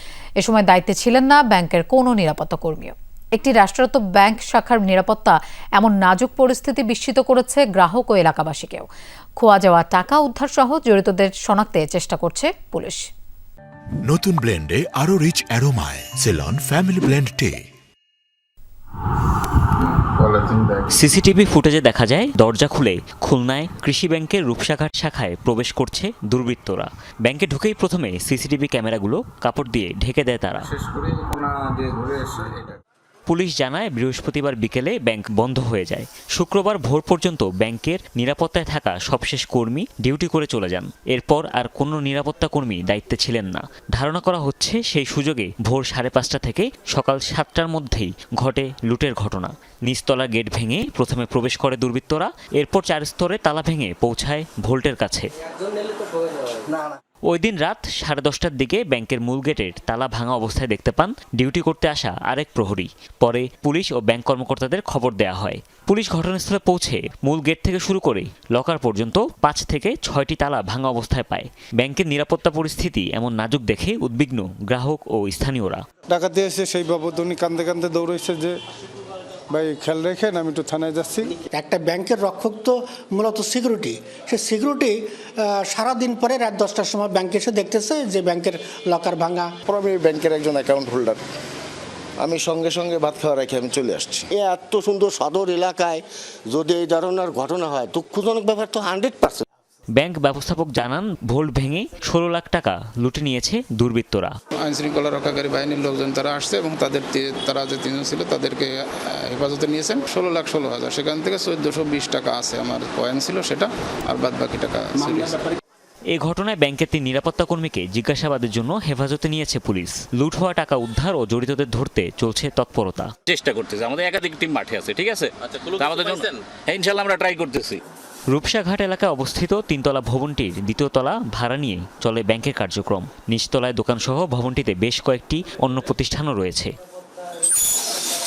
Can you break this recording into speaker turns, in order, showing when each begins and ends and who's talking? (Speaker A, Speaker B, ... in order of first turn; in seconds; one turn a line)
Speaker A: 0.4-8.9
Speaker A: 9.4-13.1
Speaker B: 14.1-17.6
Speaker C: 19.8-20.9
Speaker D: 20.9-30.7
Speaker C: 30.7-32.8
Speaker D: 33.3-55.3
Speaker D: 57.3-75.8
Speaker E: 76.1-78.6
Speaker E: 79.5-81.3
Speaker F: 81.5-89.5
Speaker G: 89.7-91.2
Speaker G: 92.2-94.3
Speaker H: 94.3-99.5
Speaker D: 100.0-104.3
Speaker C: 104.6-115.6
Speaker D: 116.1-123.1
Speaker I: 123.4-127.8
Speaker D: 128.3-136.7